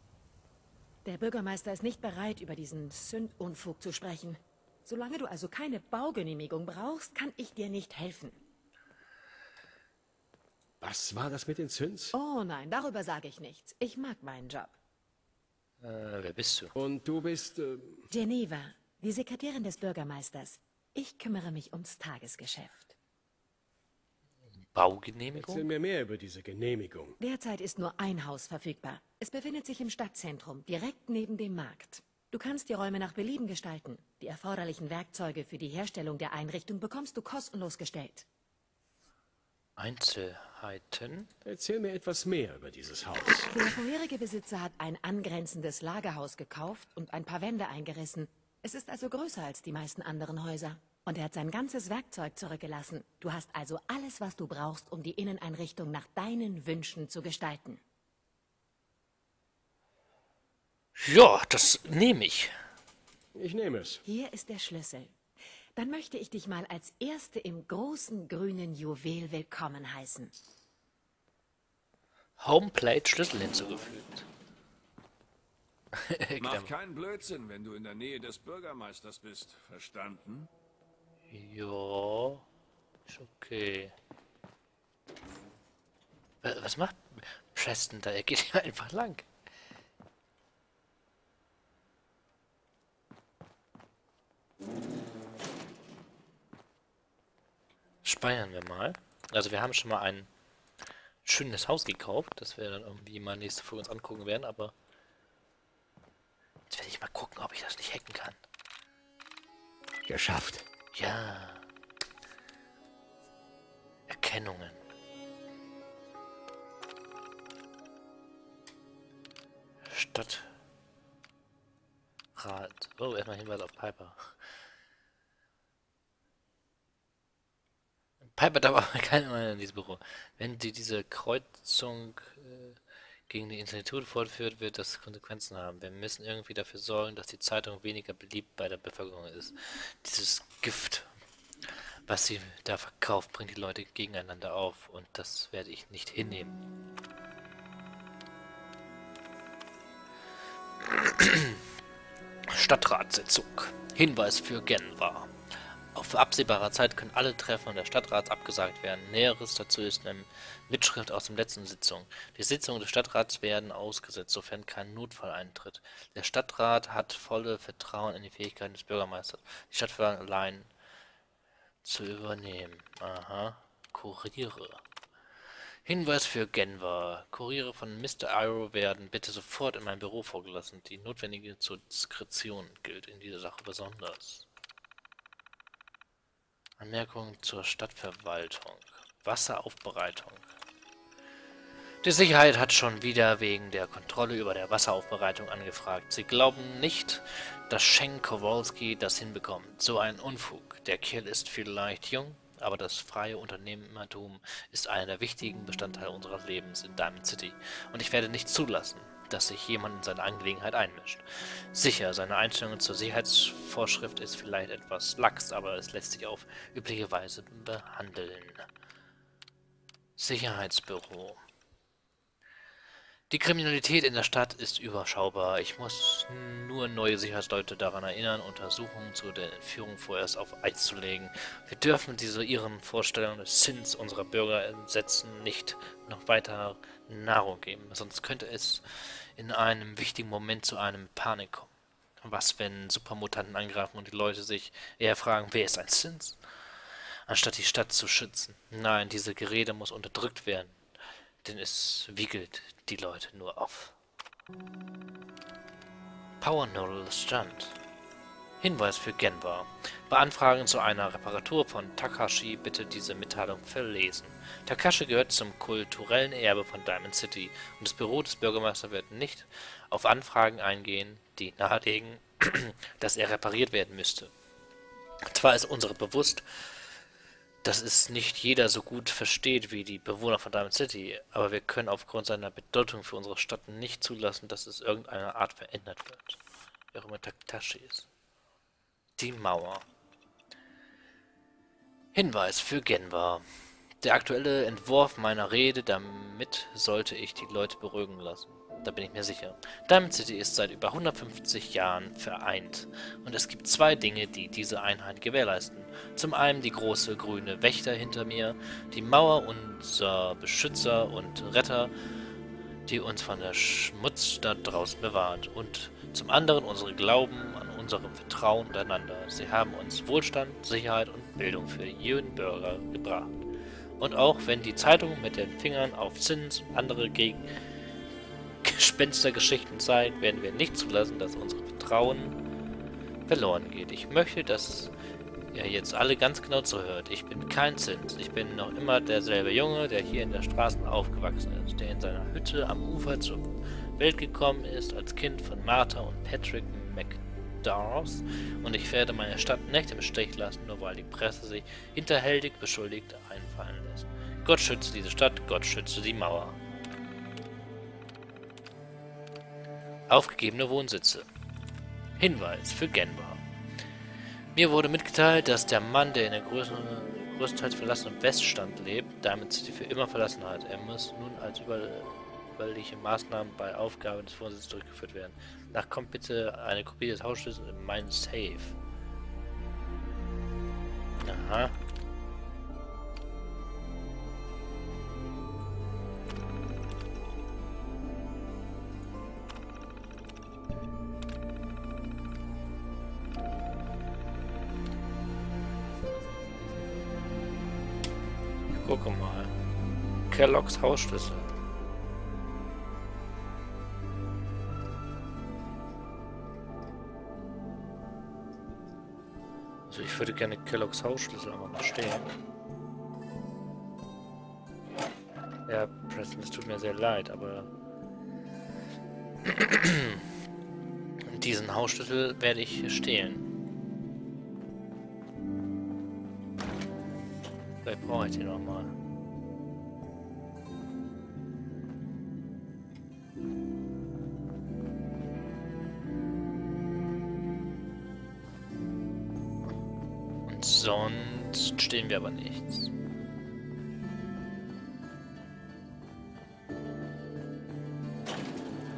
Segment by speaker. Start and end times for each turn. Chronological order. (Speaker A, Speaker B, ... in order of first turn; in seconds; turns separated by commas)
Speaker A: 1.1-8.4, Speaker B: 10.8-12.2, Speaker A: 12.1-14.8, Speaker C: 15.8-16.7, Speaker B: 16.8-18.1, Speaker A: 18.1-23.0, Speaker C: 24.7-25.7, Speaker B: 25.4-27.2, Speaker A: 27.2-38.3, Speaker C: 39.8-41.3, Speaker B: 41.5-43.5, Speaker A: 43.5-57.8, Speaker C: 61.0-62.5, Speaker B: 63.4-64.0, Speaker A: 64.0-65.2, Speaker A: 65.8-70.3, Speaker C: 72.4-74.3, Speaker C: 76.0-76.7, Speaker D: 76.4-80.5, Speaker C: 81.3-82.5, Speaker C: 83.1-83.9, Speaker C: 86.4-89.3, Speaker C: 98.0-100.3, Speaker C: 101.2-104.7, Speaker C: 106.7-108.4, Speaker B: 110.0-110.7, Speaker C: 110.9-111.7, Speaker C: 114.1-114.8, Speaker C: 119.9-120.5, Speaker C: 122.3-124.3, Speaker C: 128.3-132.8, Speaker C: 133.3-141.1, Speaker C: 142.1-146.6, Speaker C: 150.8-151.6, Speaker C: 152.5-155.3, Speaker C: 155.9-170.7, Speaker C: 171.8-174.8, Speaker C: 175.8-184.5, Speaker C: 186.8-190.4, Speaker C: 192.0-218.7, Speaker C: 220.2-221.4, Speaker C: 223.3-241.7, Speaker C: 242.2-246.4, Speaker C: 247.3-250.8, Speaker C: 251.4-253.9, Speaker C: 256.4-257.8, Speaker C: 258.6-274.3, Speaker C: 275.2-276.4, Speaker C: 277.6-286.4, Speaker C: 286.9-288.1, Speaker C: 289.2-289.9, Speaker C: 292.1-293.4, Speaker C: 294.0-311.9, Speaker C: 312.9-323.3, Speaker C: 324.0-327.5, Speaker C: 328.6-332.4, Speaker C: 333.3-334.9, Speaker C: 335.5-356.6, Speaker C: 360.1-361.3, Speaker C: 362.2-363.4, Speaker C: 364.6-378.8, Speaker C: 381.2-381.7, Speaker C: 398.7-399.5, Speaker C: 400.3-401.5, Speaker C: 409.9-412.3, Speaker C: 415.7-417.7, Speaker C: 419.4-420.3, Speaker C: 421.2-423.5, Speaker C: 427.8-428.9, Speaker C: 440.5-442.9